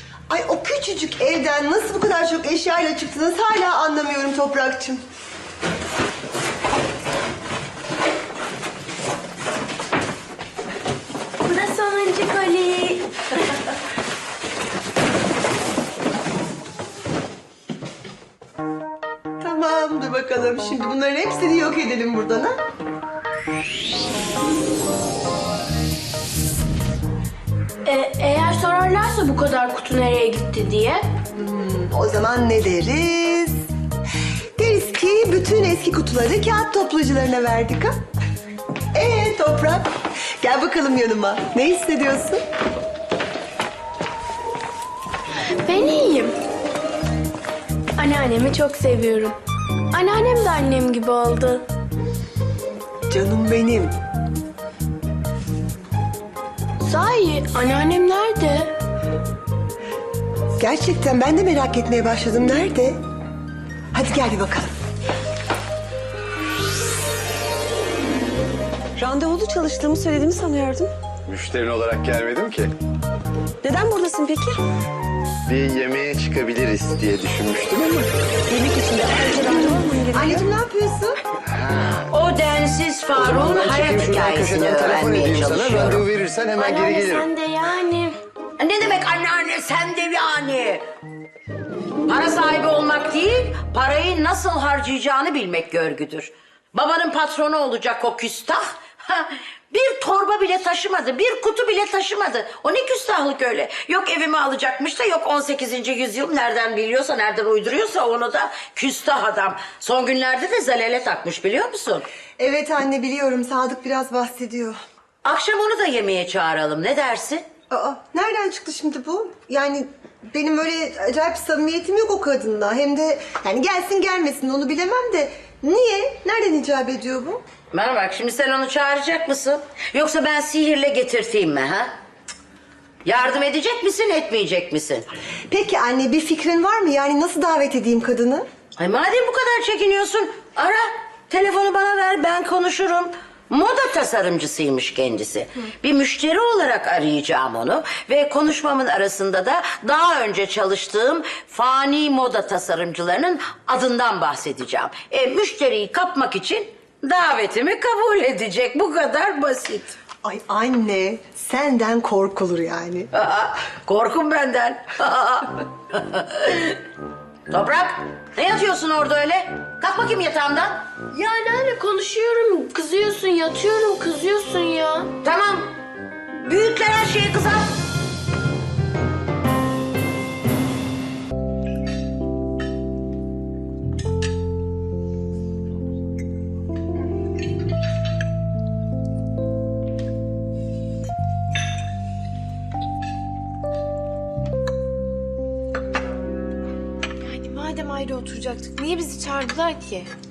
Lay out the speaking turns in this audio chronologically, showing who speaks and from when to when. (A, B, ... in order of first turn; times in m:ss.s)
0:00.3-0:05.0 A
0:11.4-0:13.1 B
0:19.4-0:22.6 A
0:27.8-0:31.0 B
0:31.4-0:33.6 A
0:34.6-0:38.0 A
0:38.9-0:42.4 A
0:45.6-0:46.3 B
0:48.0-0:49.3 B
0:49.9-0:51.6 B
0:53.1-0:53.9 A
0:56.8-0:58.7 B
1:00.6-1:03.0 A
1:03.9-1:04.7 A
1:09.0-1:10.9 C
1:11.3-1:12.7 D
1:13.6-1:14.6 C
1:15.5-1:18.1 D
1:18.5-1:20.5 C
1:19.8-1:21.2 A
1:22.1-1:26.1 E
1:23.1-1:27.2 D
1:26.6-1:28.1 B
1:28.6-1:30.8 E
1:32.1-1:52.0 E
1:52.4-1:54.8 A
1:55.2-1:57.4 E
1:57.7-2:07.4 A
2:07.7-2:11.9 E
2:13.0-2:15.0 E
2:15.5-2:18.4 A
2:18.8-2:39.9 E
2:40.2-2:43.1 A
2:43.1-2:46.8 E
2:47.5-2:50.8 E
2:51.1-2:55.1 B
2:55.2-2:55.7 E
2:56.3-2:57.7 E
3:17.2-3:20.1 B